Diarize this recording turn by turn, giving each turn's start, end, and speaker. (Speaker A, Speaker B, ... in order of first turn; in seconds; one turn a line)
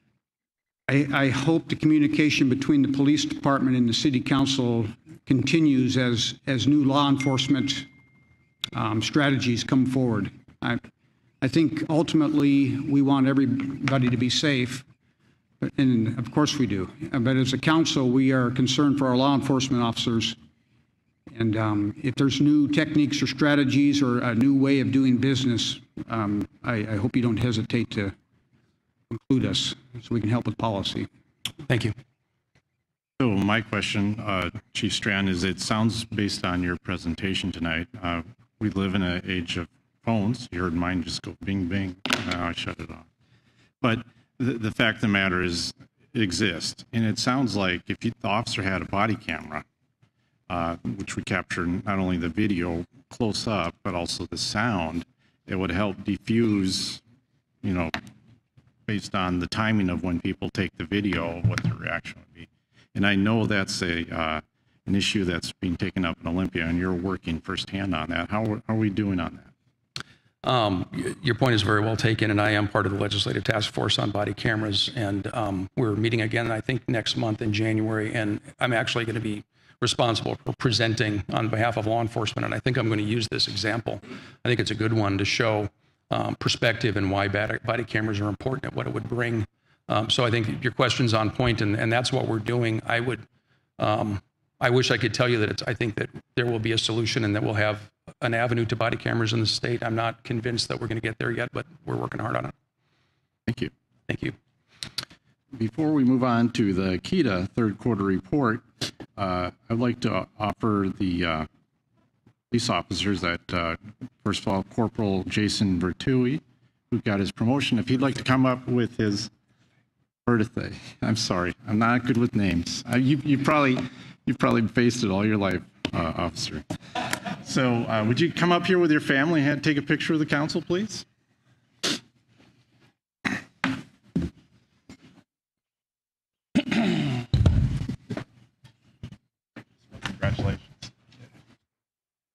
Speaker A: 0.9-7.9
Speaker A: 8.7-10.8
Speaker A: 11.4-14.8
Speaker A: 15.6-20.4
Speaker A: 21.3-28.1
Speaker A: 29.1-31.1
Speaker B: 31.7-31.9
Speaker C: 33.2-43.0
Speaker C: 43.8-49.6
Speaker C: 50.5-57.0
Speaker C: 57.6-58.0
Speaker C: 58.9-69.5
Speaker B: 70.4-93.2
Speaker B: 93.8-102.5
Speaker C: 103.5-103.7
Speaker B: 104.1-104.4
Speaker C: 105.5-111.5
Speaker C: 112.5-119.3
Speaker C: 120.3-126.6
Speaker C: 127.4-131.1
Speaker C: 139.9-140.7